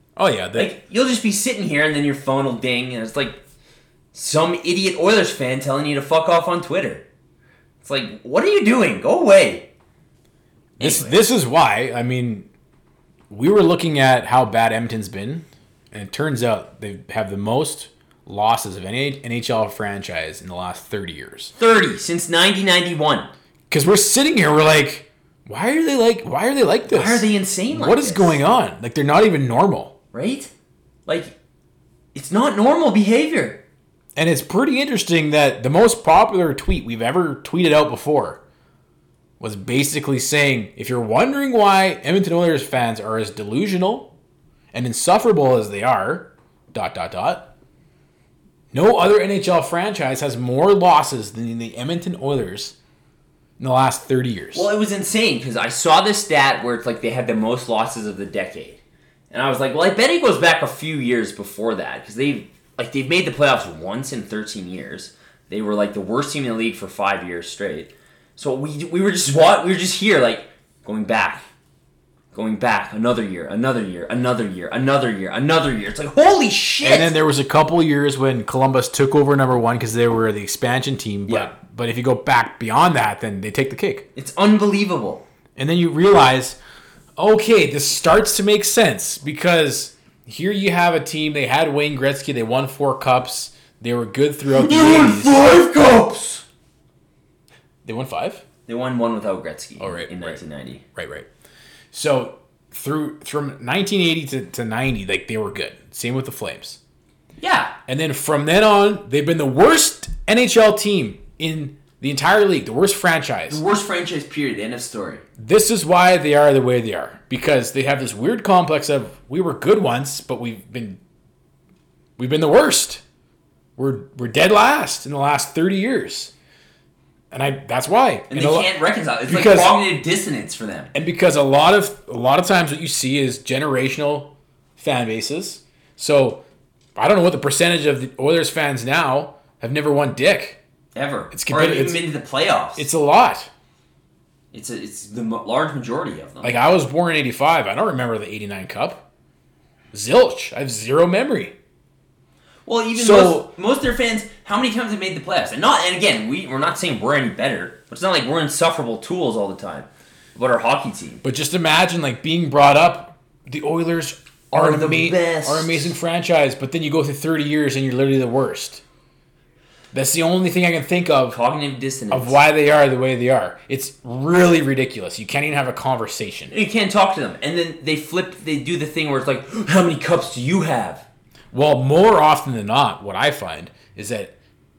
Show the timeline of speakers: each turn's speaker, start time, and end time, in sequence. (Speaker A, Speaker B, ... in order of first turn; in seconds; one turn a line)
Speaker A: 0.2-0.7
Speaker B: 0.6-3.4
Speaker B: 4.1-7.1
Speaker B: 7.8-9.7
Speaker B: 10.8-11.2
Speaker A: 10.8-12.5
Speaker A: 13.3-21.5
Speaker B: 21.6-23.3
Speaker A: 23.7-29.9
Speaker B: 26.9-28.4
Speaker B: 30.1-30.5
Speaker B: 31.1-31.4
Speaker B: 32.1-33.6
Speaker A: 34.2-38.4
Speaker A: 39.4-44.1
Speaker A: 44.7-47.5
Speaker A: 48.7-52.8
Speaker A: 53.6-54.7
Speaker B: 54.5-58.8
Speaker B: 59.3-71.5
Speaker B: 72.3-77.2
Speaker A: 76.8-84.1
Speaker B: 81.3-81.5
Speaker B: 84.2-85.2
Speaker A: 85.6-86.6
Speaker A: 87.2-95.4
Speaker B: 94.5-96.4
Speaker A: 97.8-98.4
Speaker B: 98.7-100.8
Speaker A: 99.8-100.4
Speaker A: 101.0-101.3
Speaker A: 101.9-106.8
Speaker B: 107.4-107.7
Speaker A: 107.9-113.6
Speaker B: 113.5-115.2
Speaker A: 115.4-121.0
Speaker A: 122.2-123.0
Speaker A: 123.8-126.3
Speaker A: 127.3-128.7
Speaker B: 128.3-130.9
Speaker A: 129.3-129.8
Speaker A: 130.9-136.4
Speaker A: 137.0-140.6
Speaker B: 140.9-142.9
Speaker A: 141.3-142.0
Speaker A: 142.8-143.5
Speaker B: 144.5-146.6
Speaker A: 146.4-149.0
Speaker A: 149.9-151.6
Speaker B: 152.7-161.2
Speaker A: 152.9-153.5
Speaker A: 161.2-168.8
Speaker B: 164.5-166.0
Speaker A: 169.9-171.4
Speaker B: 171.3-172.4
Speaker A: 172.1-176.5
Speaker B: 176.5-181.1
Speaker A: 181.5-184.3